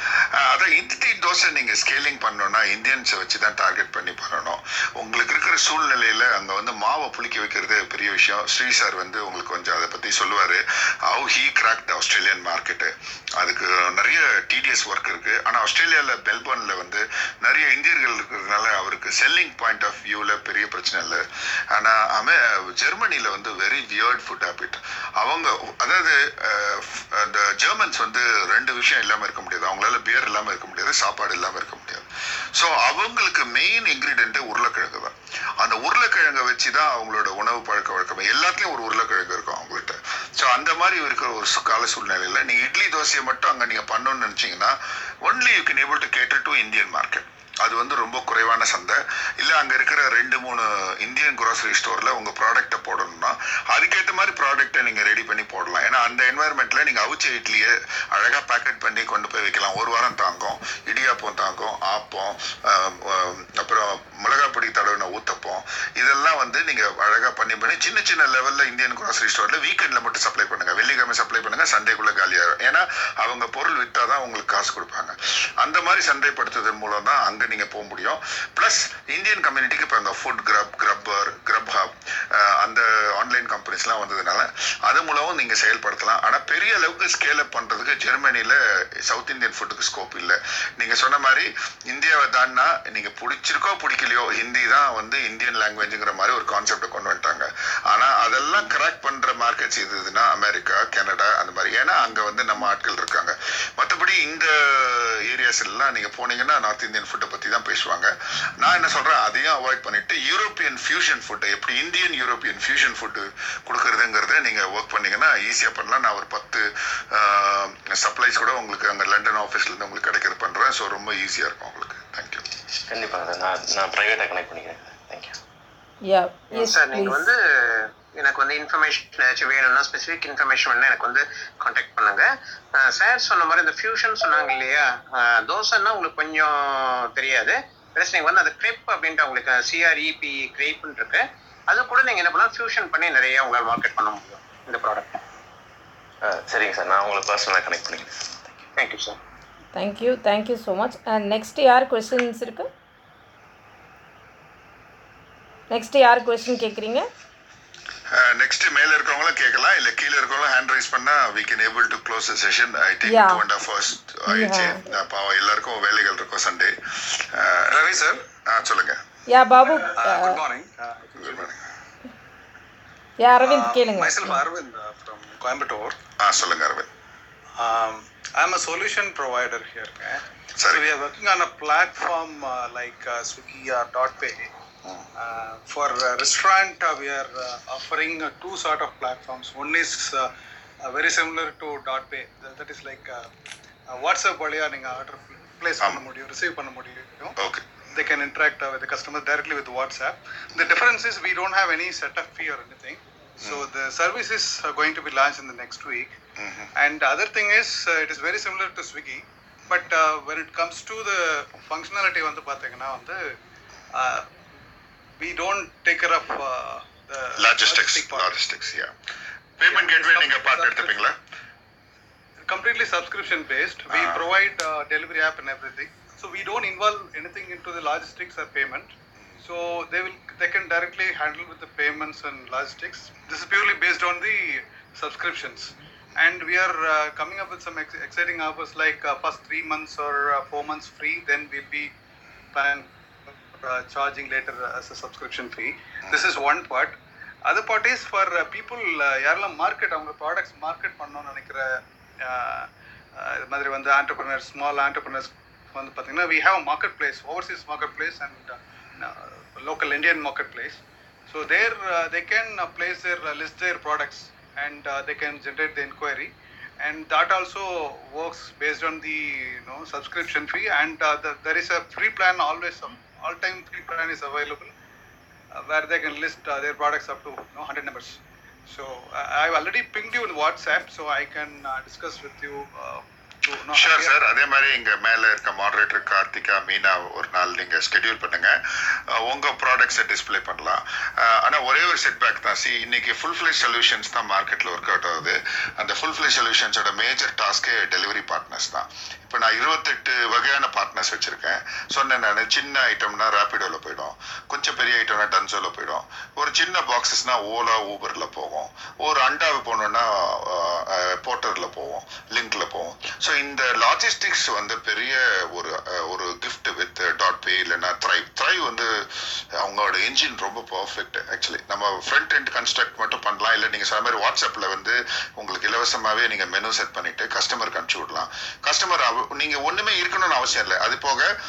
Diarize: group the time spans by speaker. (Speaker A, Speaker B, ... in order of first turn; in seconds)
Speaker A: 0.3-122.5, 158.1-169.0, 171.2-171.6, 176.2-176.9, 180.6-180.9, 197.4-197.6, 203.4-203.7, 206.4-206.7, 217.4-218.9, 219.6-221.1, 223.9-224.2, 283.7-331.3
Speaker B: 122.9-125.4, 146.2-148.6
Speaker C: 126.0-127.2, 149.7-152.7, 155.7-157.1, 163.1-163.4, 164.3-164.8, 169.3-170.4, 173.2-174.4
Speaker D: 126.5-127.4, 128.2-145.2, 148.8-149.2
Speaker E: 167.7-168.2, 169.7-171.6, 173.4-176.0, 177.6-184.5, 185.2-190.3, 190.8-193.3, 193.9-197.3, 197.9-206.2, 206.8-213.2, 213.9-214.3, 215.2-218.3, 219.6-221.0, 222.5-241.9, 242.5-246.9, 247.5-274.7, 275.6-284.1